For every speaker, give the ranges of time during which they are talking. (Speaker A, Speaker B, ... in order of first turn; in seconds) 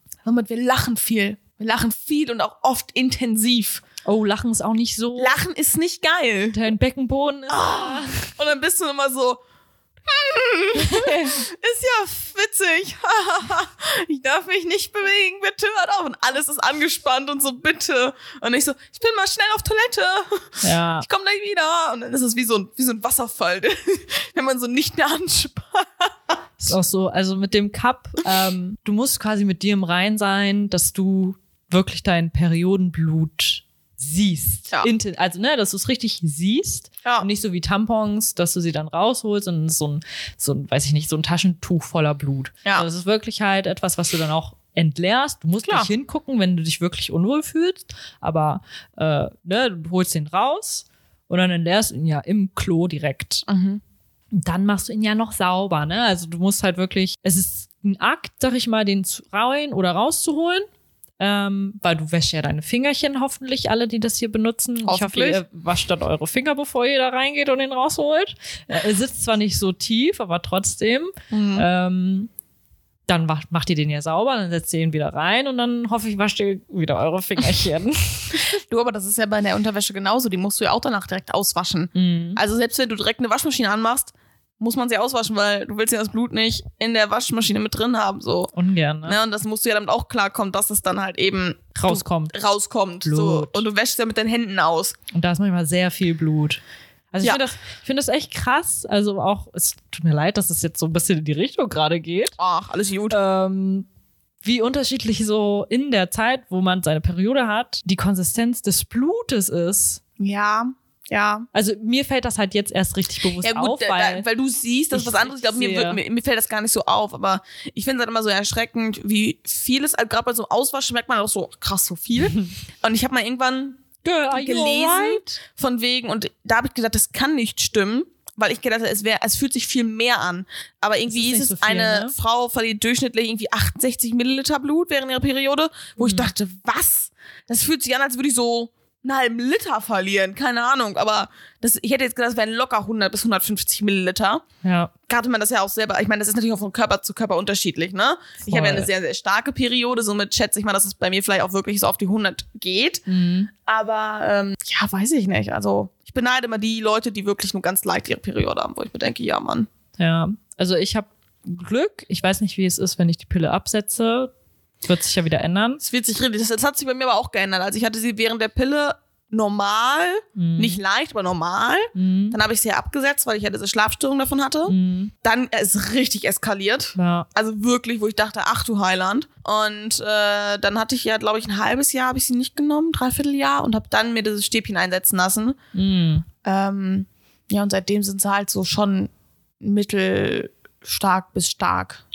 Speaker A: 0.2-3.9, 5.2-6.6, 7.5-9.4, 10.1-26.1, 45.6-45.9, 53.5-53.8, 64.8-65.4, 71.3-71.7, 78.3-88.5, 89.0-95.0, 102.4-103.2, 110.2-111.5, 113.4-144.4, 145.1-153.1, 153.6-159.7, 165.8-185.6, 186.4-189.1, 189.6-192.0
Speaker B: 4.0-5.3, 6.5-8.2, 10.8-11.4, 20.6-21.1, 26.6-53.5, 54.3-60.6, 61.2-72.3, 73.1-78.4, 81.9-82.4, 88.5-89.2, 91.7-92.3, 93.0-93.6, 95.1-96.6, 97.1-102.3, 103.1-103.8, 104.4-110.0, 111.5-114.2, 114.9-116.0, 124.0-125.4, 131.1-132.1, 136.0-136.3, 144.6-144.9, 148.4-148.9, 153.1-153.5, 160.0-164.3, 164.8-165.8, 170.3-170.8, 171.9-172.4, 174.7-175.1, 176.9-177.3, 185.7-186.2